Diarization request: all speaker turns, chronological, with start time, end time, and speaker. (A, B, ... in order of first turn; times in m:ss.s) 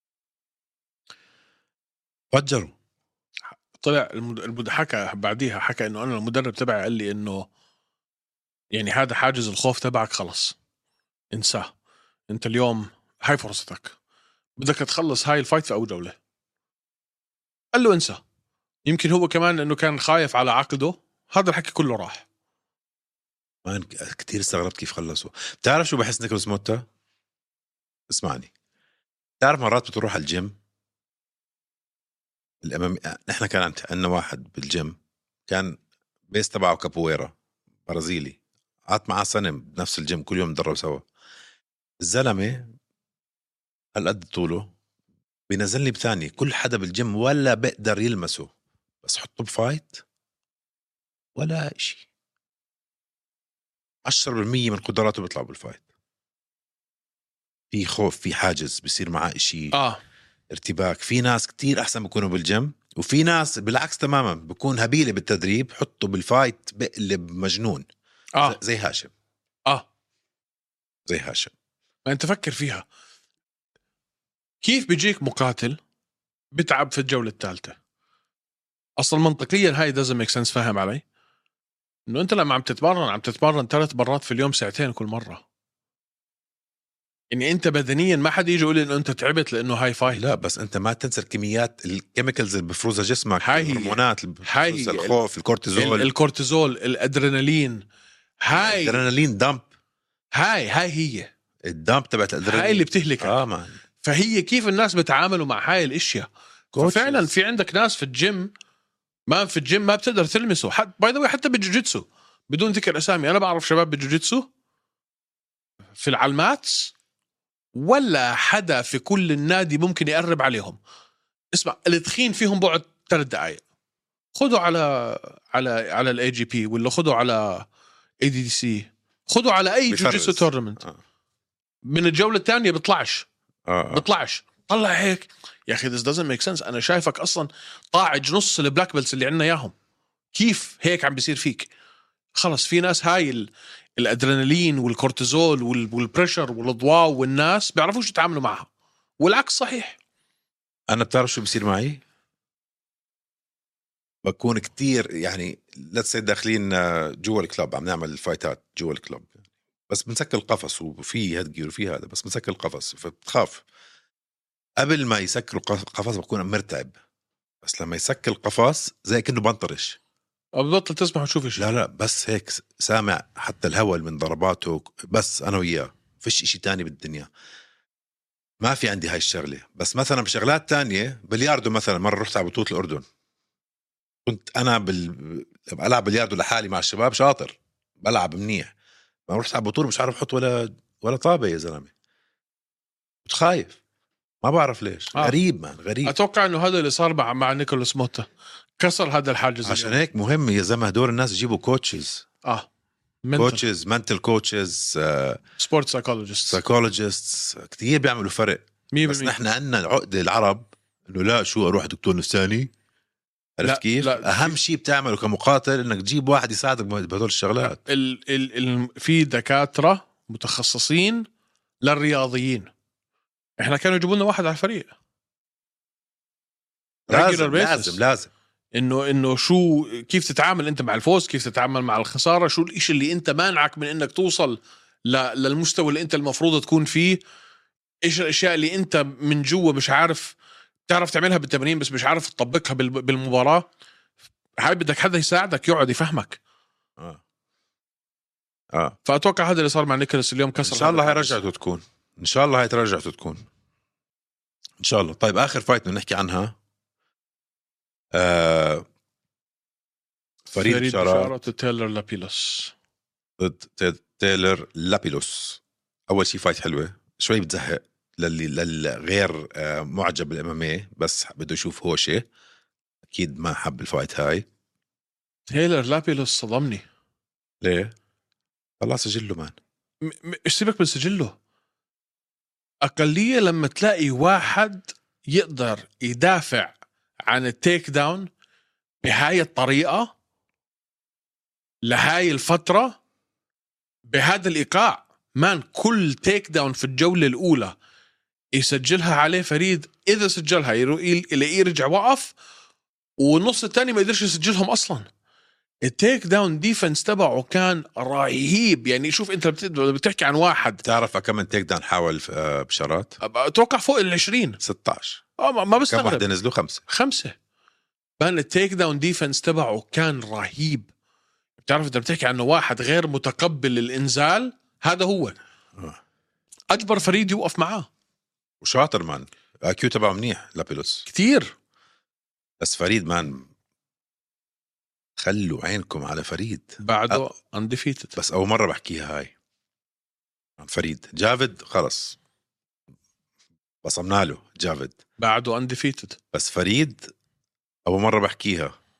0:02.3-0:02.8 A
0:03.8-0:07.5 B
0:08.7-0:10.6 B
0:11.3-0:11.7 B
0:12.3-0:14.0 B
0:14.6-0:16.2 B
0:17.7-0:18.2 B
0:18.9-0:22.2 B
0:23.6-0:26.8 A
0:28.1-0:28.5 A
0:29.4-0:30.6 A
0:32.6-0:35.0 A
0:35.5-0:35.8 A
0:36.3-0:37.4 A
0:37.9-0:41.0 A
0:42.0-0:42.7 A
0:44.0-0:44.7 A
0:45.5-0:48.5 A
0:49.0-0:50.0 A
0:51.4-0:52.1 A
0:54.1-0:55.8 A
0:57.7-0:59.8 A
0:59.7-1:00.0 B
1:00.5-1:07.9 A
1:08.4-1:09.1 A
1:11.1-1:11.5 A
1:12.1-1:12.9 B
1:14.6-1:15.8 B
1:16.5-1:17.8 B
1:19.0-1:21.0 B
1:22.1-1:25.4 B
1:27.3-1:30.3 B
1:30.1-1:36.1 A
1:33.4-1:35.2 B
1:35.8-1:37.8 B
1:38.4-1:39.0 B
1:38.5-1:39.7 A
1:40.4-1:41.3 B
1:41.6-1:43.8 A
1:42.4-1:43.4 B
1:44.0-1:48.5 B
1:46.7-1:47.3 A
1:49.3-1:54.5 B
1:56.0-1:56.9 B
1:57.8-2:00.8 B
2:01.5-2:03.6 B
2:04.4-2:07.7 B
2:08.2-2:10.8 B
2:09.9-2:11.0 A
2:11.8-2:13.3 B
2:13.7-2:14.0 A
2:13.9-2:19.7 B
2:20.3-2:21.7 B
2:22.4-2:28.7 B
2:29.2-2:30.0 B
2:30.9-2:32.0 A
2:34.2-2:43.6 A
2:44.8-2:47.0 A
2:47.6-2:50.0 A
2:50.6-2:51.7 B
2:51.6-2:57.3 A
2:58.6-3:03.0 A
3:04.3-3:08.7 A
3:09.3-3:11.9 A
3:13.3-3:13.8 A
3:14.4-3:16.2 A
3:16.0-3:18.3 B
3:18.8-3:20.0 B
3:19.6-3:22.2 A
3:23.2-3:23.6 B
3:23.4-3:25.4 A
3:25.6-3:26.6 B
3:26.5-3:32.7 A
3:28.9-3:29.4 B
3:33.6-3:37.8 A
3:33.6-3:34.6 B
3:37.9-3:41.3 B
3:41.8-3:42.7 B
3:43.6-3:44.9 B
3:47.1-3:48.3 A
3:47.1-3:48.0 B
3:48.7-3:57.2 B
3:58.0-4:00.4 B
4:00.9-4:03.7 B
4:04.6-4:06.4 B
4:08.7-4:09.0 A
4:09.0-4:11.4 B
4:10.6-4:13.4 A
4:14.8-4:16.6 A
4:18.1-4:18.9 A
4:20.5-4:21.3 A
4:20.6-4:22.7 B
4:23.4-4:32.3 A
4:33.1-4:34.5 A
4:35.5-4:36.9 B
4:37.6-4:37.9 A
4:38.8-4:39.6 A
4:40.0-4:41.4 B
4:42.8-4:48.3 B
4:49.0-4:50.1 B
4:51.8-4:53.0 B
4:54.1-4:57.8 B
4:58.5-5:02.3 B
5:03.2-5:05.1 B
5:05.8-5:10.8 B
5:10.8-5:13.2 A
5:13.2-5:14.6 B
5:14.6-5:15.2 A
5:15.4-5:16.2 B
5:15.9-5:16.8 A
5:16.9-5:17.4 B
5:18.2-5:20.9 B
5:21.6-5:25.4 B
5:26.7-5:27.9 B
5:28.6-5:31.1 A
5:31.1-5:31.5 B
5:32.6-5:33.5 A
5:35.2-5:37.2 A
5:36.8-5:38.2 B
5:38.2-5:39.3 A
5:40.6-5:42.2 A
5:43.8-5:45.0 A
5:45.2-5:46.2 B
5:46.3-5:47.1 A
5:47.9-5:48.7 A